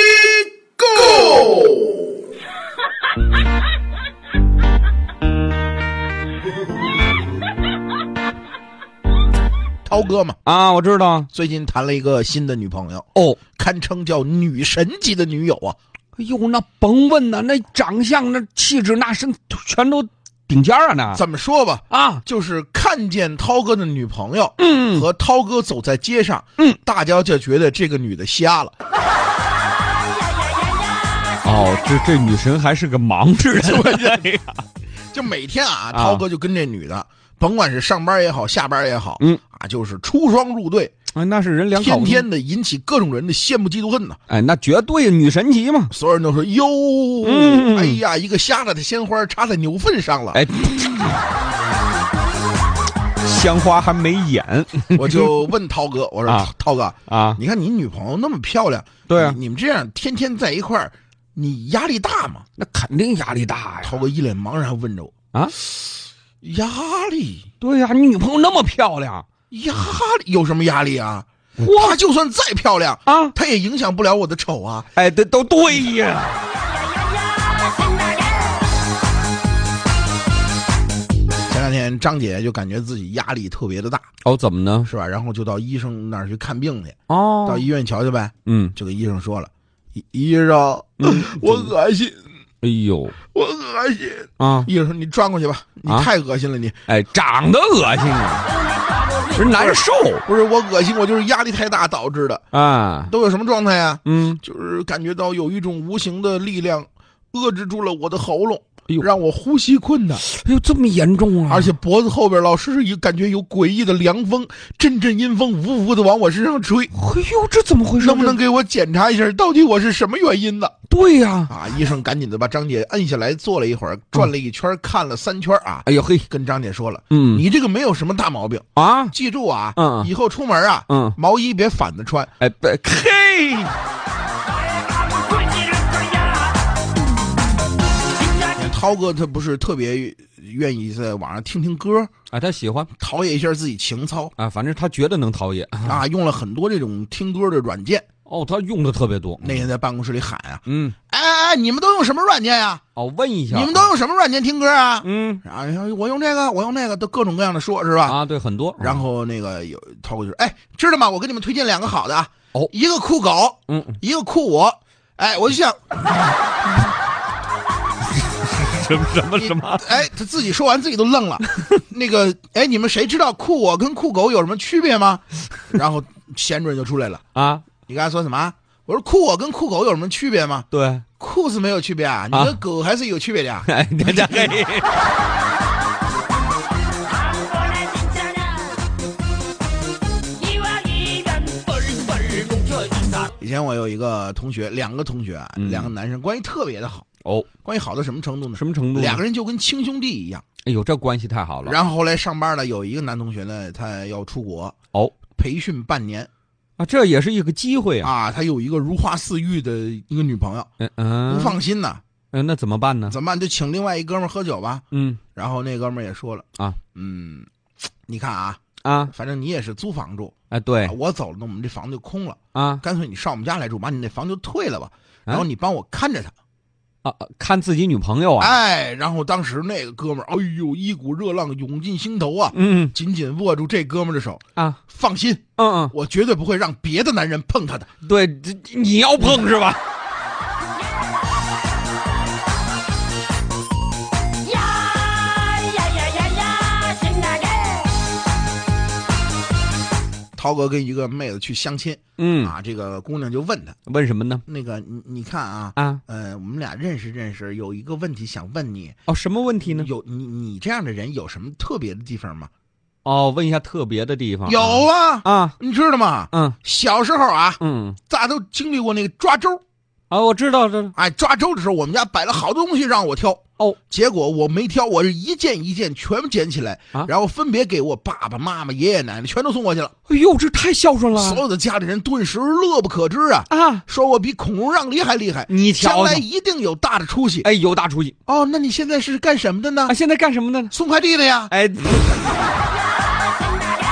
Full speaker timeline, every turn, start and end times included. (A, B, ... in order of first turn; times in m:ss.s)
0:00.8-0:02.0 A
0:09.8-0:10.4 A
0:10.4-0:11.3 B
0:11.3-0:15.8 A
0:13.1-0:13.4 B
0:16.2-0:21.2 B
0:21.1-0:28.7 A
0:21.9-0:22.2 B
0:24.6-0:25.0 B
0:31.4-0:34.6 B
0:33.6-0:34.3 A
0:35.1-0:40.9 A
0:35.9-0:36.2 B
0:41.1-0:42.3 B
0:41.7-0:44.2 A
0:44.3-0:45.9 B
0:45.9-0:50.4 A
0:47.2-0:48.0 B
0:50.3-0:51.2 B
0:53.2-0:55.5 B
0:54.9-1:02.4 A
0:57.1-0:57.4 B
0:59.1-0:59.4 B
1:02.6-1:04.0 B
1:03.8-1:05.1 A
1:06.4-1:07.5 A
1:07.6-1:09.2 B
1:09.5-1:14.9 A
1:11.6-1:12.0 B
1:13.0-1:13.3 B
1:14.9-1:16.5 B
1:21.5-1:24.1 A
1:24.2-1:24.9 B
1:24.8-1:32.2 A
1:27.1-1:27.7 B
1:28.4-1:28.8 B
1:31.0-1:31.7 B
1:32.6-1:33.2 B
1:33.3-1:36.8 A
1:34.4-1:34.7 B
1:36.8-1:38.6 B
1:39.3-1:40.2 B
1:39.5-1:42.4 A
1:42.5-1:43.1 B
1:43.1-1:50.2 A
1:44.0-1:44.4 B
1:50.2-1:51.7 B
1:51.5-1:56.9 A
1:56.9-1:58.4 B
1:58.0-2:00.7 A
2:00.9-2:01.5 B
2:01.5-2:12.3 A
2:05.8-2:06.3 B
2:07.1-2:07.4 B
2:08.8-2:09.1 B
2:09.8-2:10.1 B
2:10.9-2:11.2 B
2:12.4-2:13.8 B
2:18.4-2:22.1 A
2:22.3-2:22.9 B
2:23.0-2:24.3 A
2:24.4-2:26.0 B
2:25.8-2:28.0 A
2:28.2-2:29.6 B
2:29.4-2:32.8 A
2:30.7-2:30.9 B
2:33.0-2:33.9 B
2:33.5-2:38.2 A
2:35.0-2:35.4 B
2:38.0-2:39.0 B
2:38.8-2:46.2 A
2:43.7-2:44.0 B
2:48.2-2:49.9 B
2:49.4-2:57.2 A
2:57.3-2:57.7 B
2:57.9-3:00.7 A
3:00.7-3:01.0 B
3:01.2-3:04.5 A
3:02.3-3:02.6 B
3:03.7-3:05.0 B
3:10.6-3:13.2 B
3:13.4-3:17.0 A
3:15.6-3:15.9 B
3:17.2-3:17.5 B
3:17.6-3:20.4 A
3:18.5-3:19.2 B
3:20.6-3:21.8 B
3:21.6-3:24.7 A
3:24.9-3:25.2 B
3:25.3-3:26.3 A
3:26.8-3:28.1 B
3:28.0-3:30.7 A
3:30.8-3:31.6 B
3:31.2-3:32.0 A
3:32.3-3:33.2 B
3:33.1-3:34.8 A
3:34.9-3:35.2 B
3:35.3-3:37.5 A
3:38.1-3:38.6 A
3:38.8-3:39.1 B
3:39.1-3:46.3 A
3:40.5-3:40.9 B
3:42.5-3:42.8 B
3:47.0-3:48.6 B
3:48.4-3:57.9 A
3:52.5-3:52.9 B
3:55.6-3:55.9 B
3:58.0-3:59.8 B
4:10.4-4:13.8 A
4:12.2-4:12.5 B
4:13.9-4:14.4 B
4:14.4-4:19.0 A
4:15.8-4:16.0 B
4:19.1-4:19.9 B
4:19.6-4:22.5 A
4:23.0-4:25.6 B
4:24.4-4:29.6 A
4:26.3-4:26.6 B
4:27.6-4:28.0 B
4:30.1-4:30.9 B
4:30.9-4:39.9 A
4:40.1-4:41.4 B
4:41.1-4:47.5 A
4:43.5-4:43.8 B
4:45.5-4:46.2 B
4:47.4-4:48.2 B
4:48.3-4:50.0 A
4:49.9-4:50.7 B
4:50.7-4:51.5 A
4:51.5-4:52.3 B